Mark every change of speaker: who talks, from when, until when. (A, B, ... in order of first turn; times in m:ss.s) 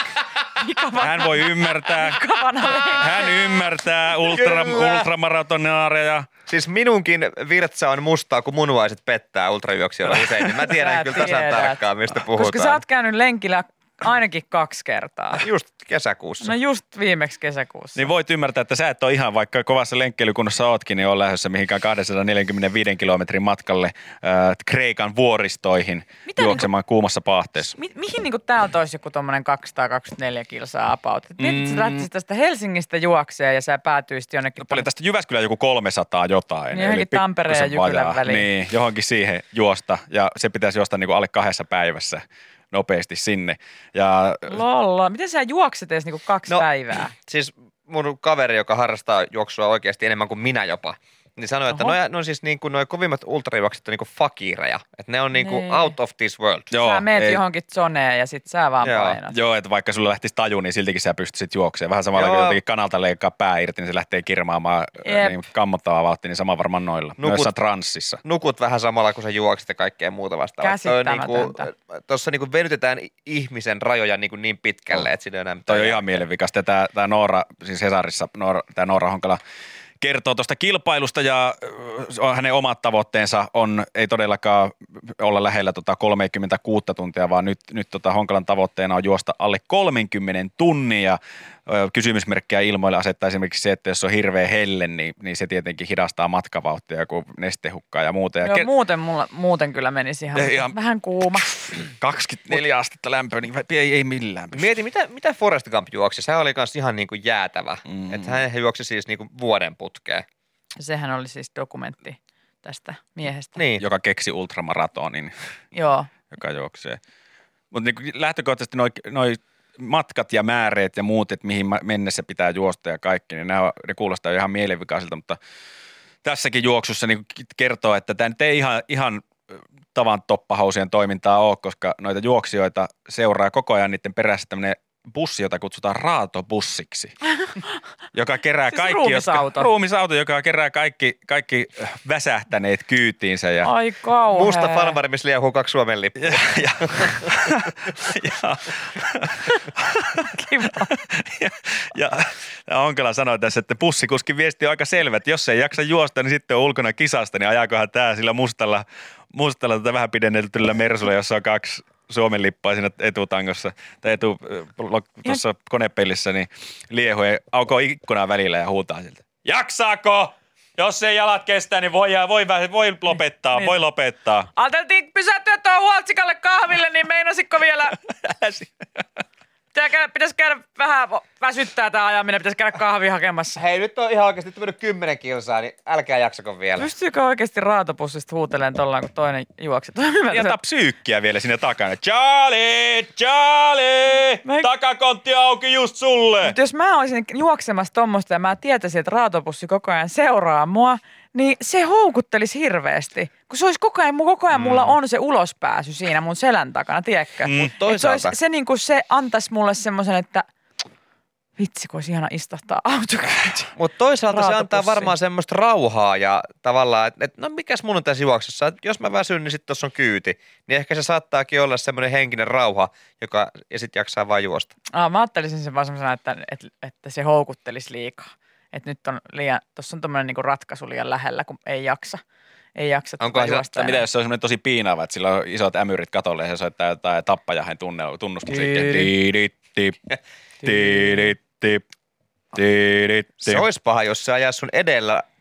0:00.6-0:03.4 A
0:01.0-0:06.3 B
0:04.3-0:05.1 C
0:06.5-0:12.8 C
0:10.7-0:15.4 A
0:15.4-0:16.5 C
0:16.4-0:18.0 A
0:18.0-0:27.8 B
0:26.3-0:26.7 A
0:27.7-0:34.9 A
0:31.4-0:32.1 B
0:34.6-0:44.6 B
0:36.7-0:38.5 A
0:44.5-0:47.1 A
0:46.5-0:56.7 C
0:51.7-0:52.0 A
0:55.4-0:55.9 A
0:56.7-0:57.4 B
0:56.7-0:59.4 A
0:58.8-0:59.2 C
0:59.3-1:08.2 B
1:02.2-1:02.6 C
1:05.0-1:05.4 A
1:07.2-1:07.5 C
1:08.2-1:16.1 C
1:10.6-1:11.7 A
1:15.7-1:19.4 B
1:20.0-1:38.7 B
1:38.4-1:41.8 A
1:40.4-1:40.8 B
1:41.7-1:44.7 B
1:44.5-1:50.2 C
1:47.9-1:48.4 B
1:50.8-1:53.6 A
1:53.6-1:53.8 C
1:53.8-1:55.3 B
1:55.7-1:56.1 A
1:56.3-1:57.0 B
1:57.7-2:05.4 B
2:06.2-2:17.1 B
2:18.1-2:23.7 B
2:18.7-2:19.7 A
2:23.6-2:25.0 A
2:24.3-2:27.3 C
2:26.2-2:54.5 B
2:30.3-2:30.9 A
2:53.5-2:53.8 A
2:54.6-2:58.0 A
2:58.1-2:59.0 B
2:59.7-3:03.6 A
3:03.6-3:06.9 C
3:06.8-3:10.6 A
3:10.3-3:16.6 B
3:16.4-3:30.5 A
3:27.5-3:28.4 C
3:31.6-3:33.7 A
3:33.8-3:44.7 C
3:34.3-3:35.1 A
3:44.9-3:52.2 A
3:52.8-3:54.0 A
3:53.2-3:53.6 C
3:53.7-4:00.0 B
4:00.6-4:01.8 B
4:02.5-4:03.6 B
4:03.4-4:05.2 C